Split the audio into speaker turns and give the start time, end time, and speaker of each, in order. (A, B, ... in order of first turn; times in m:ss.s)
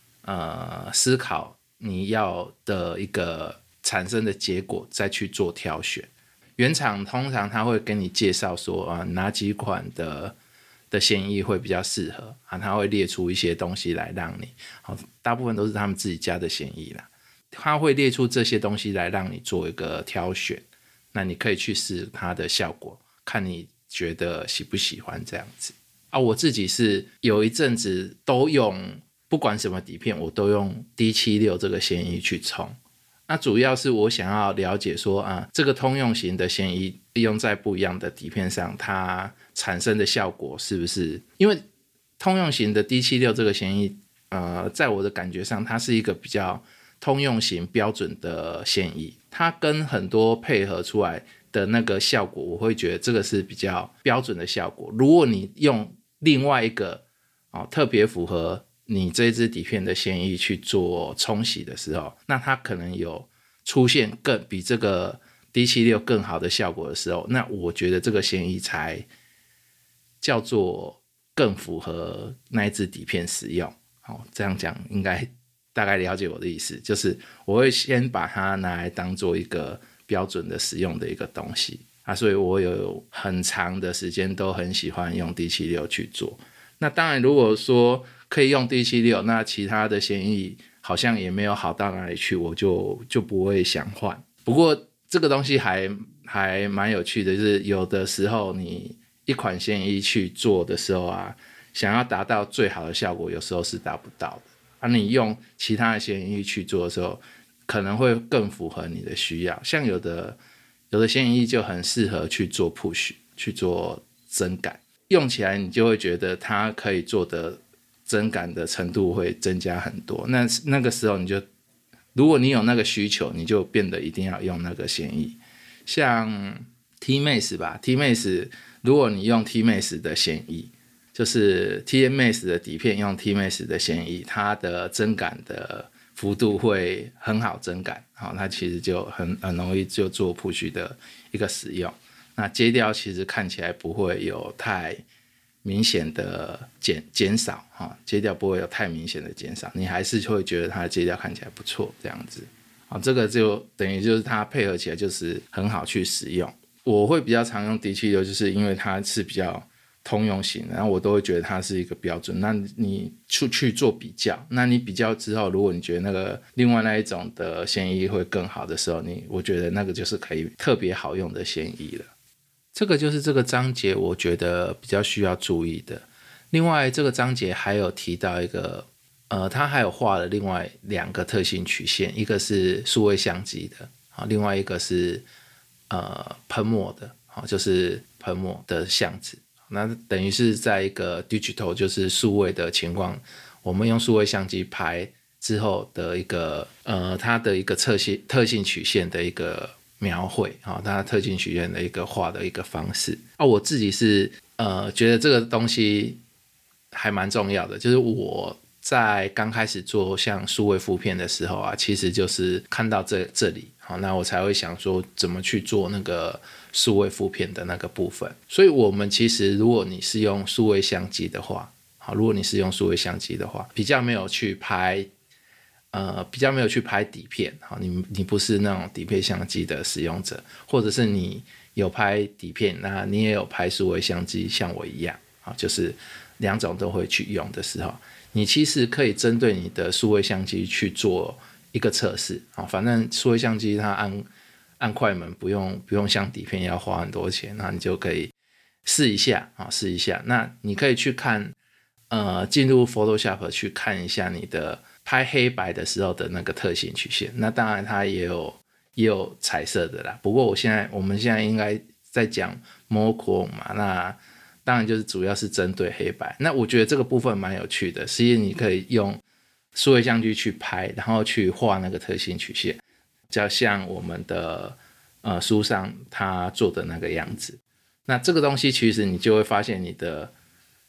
0:00.2-0:10.4 A
0:10.9-0:32.8 A
0:33.3-0:41.6 A
0:42.2-1:09.1 A
1:10.2-1:50.4 A
1:50.9-2:01.4 A
2:02.1-2:25.0 A
2:25.6-2:52.1 A
2:52.7-3:05.2 A
3:05.9-3:26.2 A
3:26.9-3:45.1 A
3:45.9-4:04.3 A
4:04.8-4:08.3 A
4:08.8-4:11.5 A
4:12.1-4:29.2 A
4:29.7-4:32.8 A
4:33.3-4:40.3 A